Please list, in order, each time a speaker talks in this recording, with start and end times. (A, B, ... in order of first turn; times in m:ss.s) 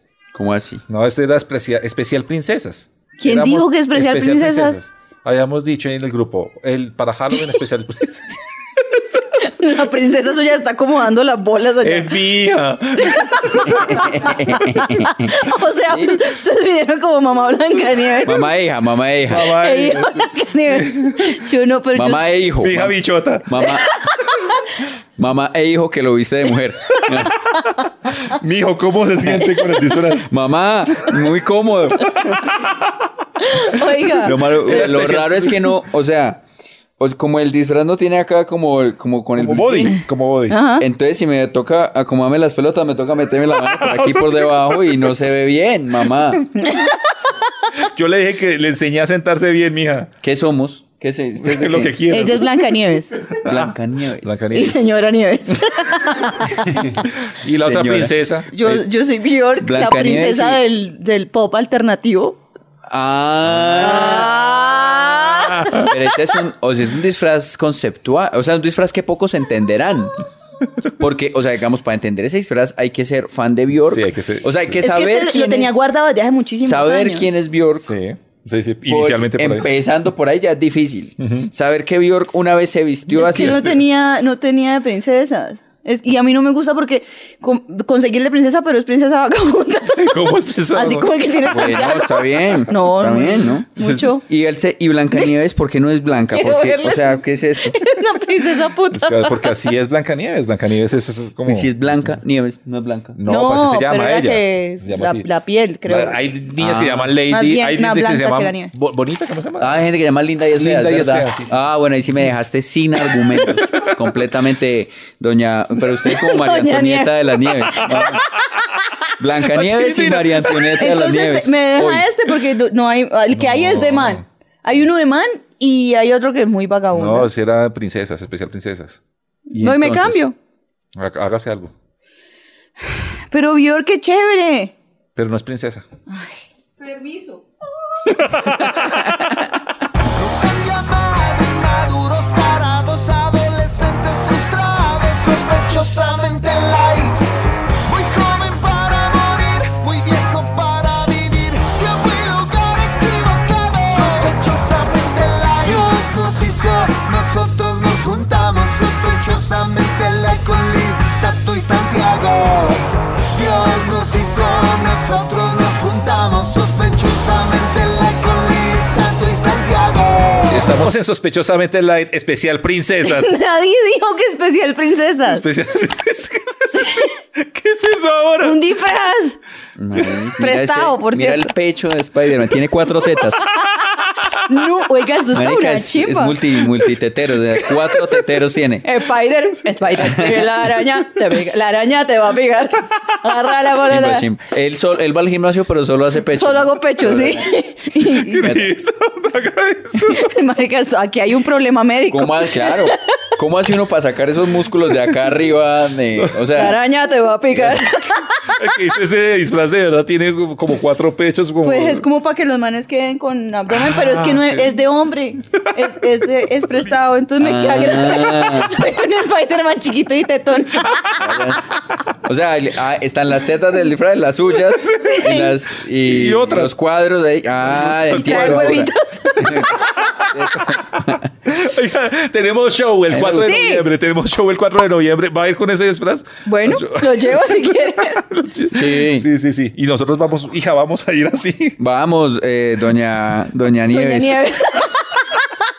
0:00.3-0:00.8 A
0:00.9-0:08.3 B
0:03.2-0:04.8 C
0:09.4-0:12.2 C
0:11.8-0:14.0 B
0:13.0-0:18.5 C
0:13.6-0:15.4 A
0:15.9-0:16.2 A
0:18.2-0:19.5 A
0:19.3-0:21.2 B
0:19.4-0:22.3 C
0:22.0-0:23.9 A
0:22.6-0:23.6 B
0:23.6-0:24.6 C
0:25.2-0:27.5 A
0:28.1-0:30.3 B
0:30.0-0:32.4 A
0:32.0-0:32.9 B
0:33.4-0:35.0 C
0:34.1-0:36.4 A
0:34.2-0:35.8 B
0:37.0-0:40.0 A
0:39.4-0:40.6 B
0:40.5-0:40.9 C
0:40.8-0:46.5 A
0:43.5-0:45.0 B
0:46.6-0:47.0 C
0:47.8-0:50.1 B
0:50.2-0:52.0 A
0:51.4-0:52.4 B
0:52.1-0:53.2 C
0:53.3-0:54.8 B
0:53.4-0:54.6 A
0:54.5-0:57.0 C
0:57.2-0:58.5 B
0:57.6-0:58.8 A
0:58.5-1:02.4 C
0:59.6-1:00.6 A
1:02.9-1:04.4 A
1:03.8-1:06.2 C
1:05.4-1:05.9 B
1:05.8-1:10.1 A
1:11.0-1:15.7 A
1:13.9-1:14.6 B
1:14.8-1:17.3 C
1:16.6-1:17.9 A
1:17.8-1:19.7 B
1:18.9-1:23.7 A
1:21.2-1:21.5 B
1:23.1-1:34.2 C
1:23.3-1:23.8 B
1:30.0-1:31.1 B
1:31.5-1:37.8 A
1:33.8-1:34.0 B
1:36.3-1:39.6 C
1:38.9-1:41.7 B
1:41.4-1:43.2 A
1:43.2-1:45.3 B
1:43.3-1:46.2 C
1:45.9-1:49.8 B
1:46.6-1:47.1 A
1:47.3-1:48.7 C
1:49.6-1:58.2 A
1:50.5-1:51.6 B
1:53.4-1:53.9 B
1:56.1-1:58.2 C
1:58.0-1:58.5 B
1:59.2-2:02.1 A
1:59.5-2:00.7 B
2:00.8-2:07.3 C
2:03.3-2:04.2 B
2:06.9-2:09.0 B
2:09.5-2:10.4 C
2:09.5-2:10.2 A
2:11.0-2:11.7 B
2:12.9-2:14.7 C
2:15.2-2:15.8 B
2:16.1-2:17.5 C
2:18.1-2:19.0 B
2:18.2-2:18.9 C
2:20.2-2:27.2 D
2:27.8-2:50.7 D
2:50.5-2:53.4 B
2:53.0-2:55.4 C
2:55.3-2:58.6 B
2:56.8-2:57.1 C
2:58.4-2:59.4 C
2:59.8-3:03.5 A
3:00.4-3:01.5 C
3:03.6-3:04.4 B
3:04.3-3:06.4 C
3:05.3-3:08.9 A
3:07.7-3:08.1 C
3:08.8-3:14.3 C
3:10.0-3:10.5 A
3:13.8-3:17.5 A
3:16.4-3:18.6 C
3:18.1-3:20.3 B
3:18.4-3:18.7 A
3:20.1-3:23.0 C
3:22.1-3:26.8 A
3:26.5-3:28.8 C
3:28.5-3:32.0 B
3:31.6-3:41.4 C
3:33.7-3:34.6 B
3:37.4-3:38.8 A
3:41.2-3:41.7 A
3:42.2-3:51.3 A
3:44.9-3:45.6 C
3:46.0-3:46.7 B
3:47.6-3:48.8 B
3:48.1-3:50.0 C
3:49.6-4:01.8 B
3:53.1-3:53.6 A
3:53.4-3:53.8 C
3:56.5-3:58.2 C
3:58.7-3:59.3 A
4:01.8-4:04.4 A
4:03.9-4:05.5 C